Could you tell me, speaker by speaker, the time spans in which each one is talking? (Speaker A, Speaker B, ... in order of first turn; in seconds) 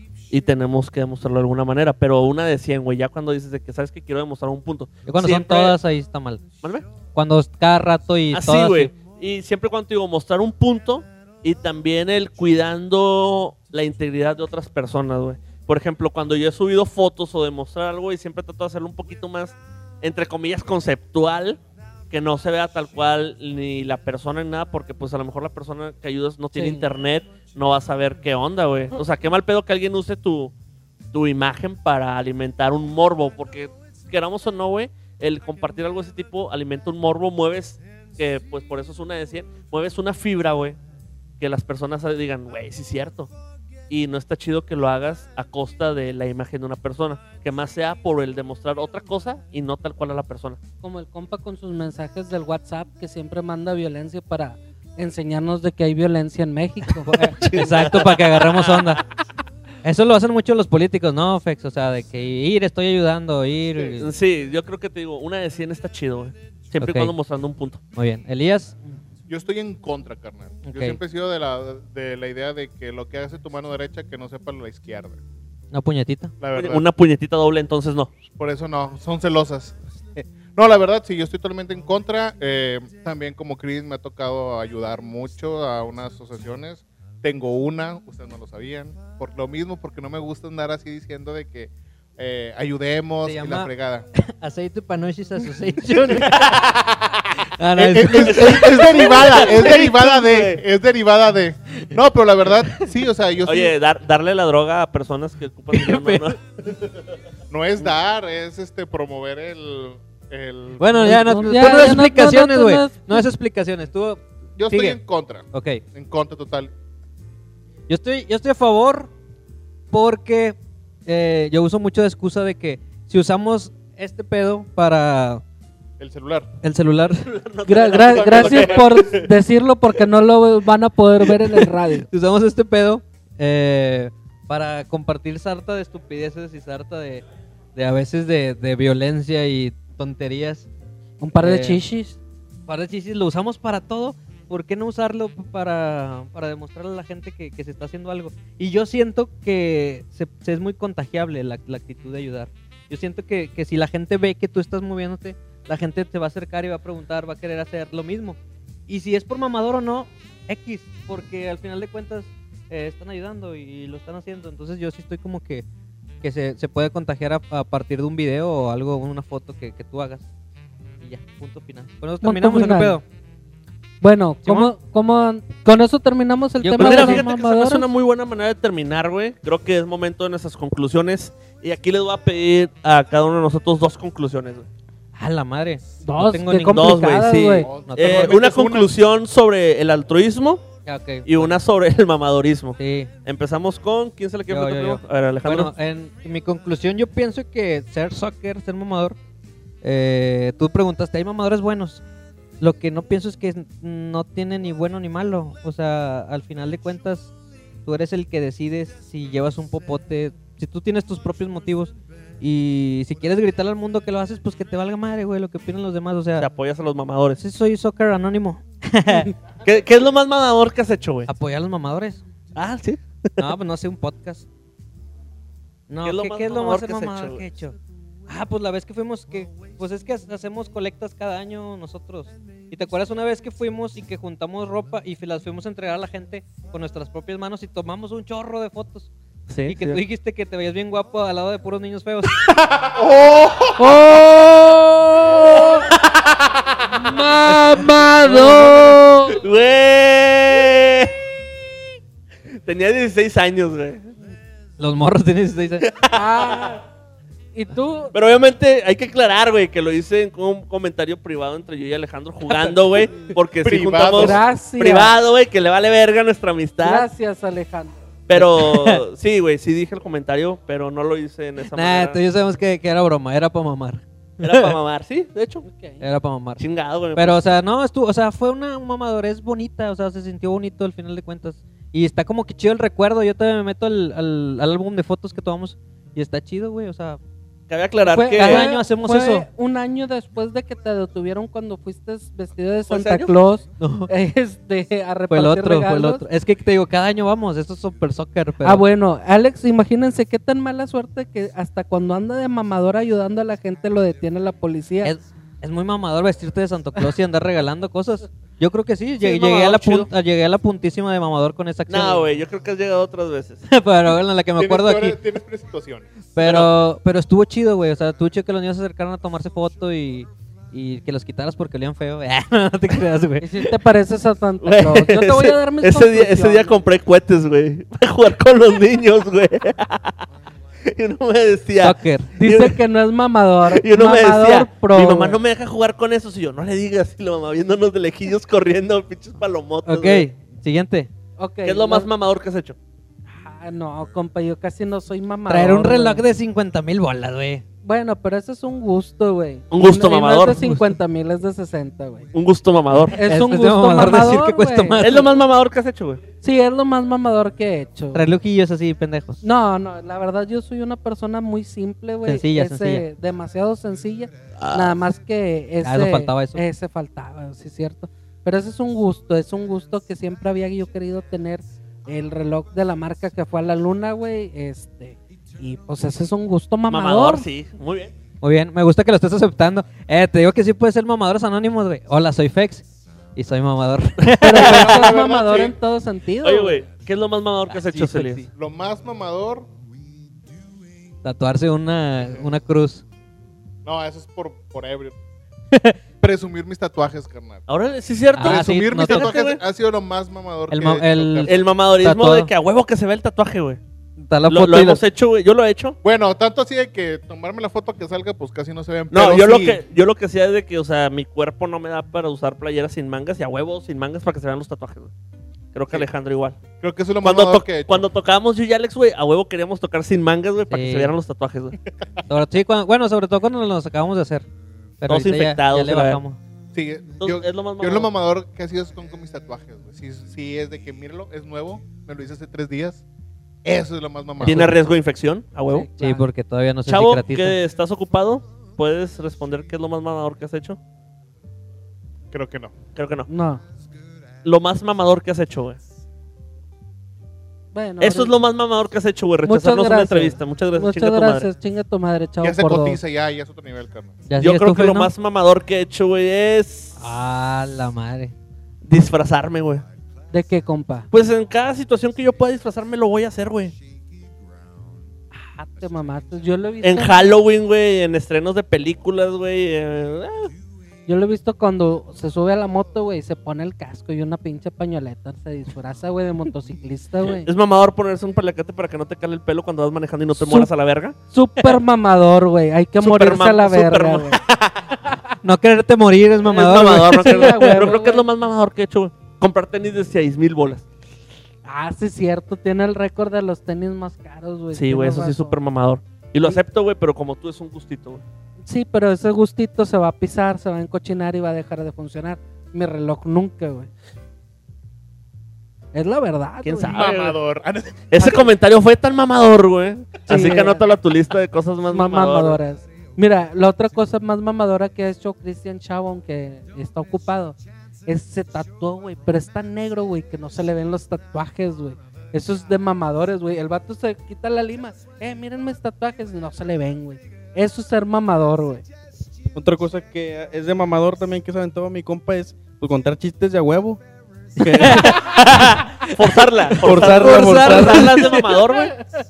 Speaker A: 0.3-5.8, 8.3-21.6, 22.1-30.5, 31.1-40.8, 41.4-43.3, 43.9-50.6, 57.2-59.0, 63.9-67.8, 76.5-78.1, 98.1-100.6, 103.5-106.4, 127.2-129.3, 176.8-184.7, 186.7-190.7, 191.2-195.7, 216.4-217.4, 219.6-221.3, 222.5-223.5, 226.0-227.4, 239.5-240.0, 247.6-251.1, 252.6-254.1, 255.8-256.6, 258.1-267.1, 268.3-272.2, 274.4-275.6, 276.6-277.4, 287.7-288.7, 292.9-293.3, 309.2-310.1, 311.9-313.6, 316.4-316.7, 324.6-330.2, 330.8-332.8, 333.7-340.3, 341.6-342.8, 349.7-350.7, 352.3-353.2, 355.0-356.2, 364.6-364.9, 376.9-378.1, 384.5-384.8, 386.4-388.5, 397.7-399.6, 401.4-403.8, 404.4-406.0, 409.1-415.1, 415.7-416.6, 417.2-421.8, 425.1-426.2, 427.2-428.1, 434.4-435.9, 436.9-440.8, 442.9-443.3, 444.4-445.8, 448.0-451.5, 454.4-457.0, 458.8-459.8, 461.1-463.7, 466.8-470.5, 477.3-481.1, 483.0-485.0, 486.4-490.9, 494.7-498.2, 506.6-507.4, 508.1-512.6, 534.8-539.0
Speaker B: 5.1-6.4, 7.1-8.9, 57.0-59.0, 59.8-64.1, 66.8-67.1, 68.0-68.8, 70.6-71.0, 75.7-76.3, 93.2-96.6, 97.6-99.5, 105.7-106.3, 110.8-115.0, 115.5-115.8, 117.9-119.1, 119.9-125.4, 126.6-127.3, 132.1-137.2, 137.7-140.7, 141.4-141.8, 142.7-165.7, 166.2-170.2, 171.0-173.0, 174.4-174.7, 176.6-177.2, 185.2-187.3, 187.8-188.4, 190.8-191.5, 192.8-193.1, 194.5-199.2, 199.8-202.0, 202.6-207.3, 207.8-216.4, 217.4-219.3, 221.3-222.2, 223.4-224.4, 225.9-227.8, 228.3-239.1, 239.7-242.3, 247.7-248.9, 254.8-255.9, 262.5-263.3, 268.3-269.0, 271.7-274.7, 276.0-276.6, 277.1-287.2, 288.4-289.4, 293.8-294.1, 295.3-298.8, 305.0-312.3, 313.7-315.2, 316.3-323.5, 331.8-332.3, 339.9-341.1, 345.5-347.6, 350.5-350.8, 353.0-355.4, 358.1-359.4, 362.2-363.0, 365.8-366.6, 378.4-385.0, 387.7-388.4, 391.2-393.0, 395.7-396.0, 398.4-399.3, 400.7-402.5, 404.2-405.0, 420.7-421.1, 422.3-424.4, 425.0-426.4, 436.0-437.6, 454.3-455.1, 457.0-458.3, 485.4-487.9, 534.6-538.6
Speaker C: 26.5-26.9, 50.8-57.3, 111.1-113.3, 127.7-132.1, 141.2-142.2, 172.2-173.0, 174.0-177.9, 186.0-187.7, 243.8-245.8, 246.9-249.4, 256.1-256.8, 257.5-258.1, 264.1-265.1, 266.8-267.9, 275.6-276.0, 288.1-296.2, 298.6-305.1, 323.4-326.9, 332.3-335.4, 341.4-342.1, 343.3-346.2, 347.8-352.3, 353.1-355.0, 356.4-358.2, 359.4-377.4, 384.4-386.8, 435.7-436.3, 443.3-443.6, 447.7-448.3, 449.5-453.0, 460.3-461.1, 465.3-467.3, 471.1-477.5, 480.4-480.7, 481.3-484.4, 487.2-488.2, 491.6-495.5, 498.6-503.9, 505.9-507.1, 508.2-508.5, 510.3-510.8, 511.9-528.8
Speaker D: 69.3-75.2, 76.4-76.8, 78.4-94.1, 96.1-97.2, 97.7-103.7, 107.5-111.8, 114.5-116.7, 126.0-126.5, 187.6-188.9, 242.9-243.8, 263.6-264.4, 314.6-316.1, 384.6-385.7, 388.5-389.7, 393.8-395.1, 396.2-397.6, 398.4-401.6, 406.0-409.8, 416.8-418.1, 426.7-433.0, 433.6-434.8, 442.3-442.7, 452.4-454.2, 506.9-508.1
Speaker E: 529.5-534.0, 534.5-535.3, 536.8-538.1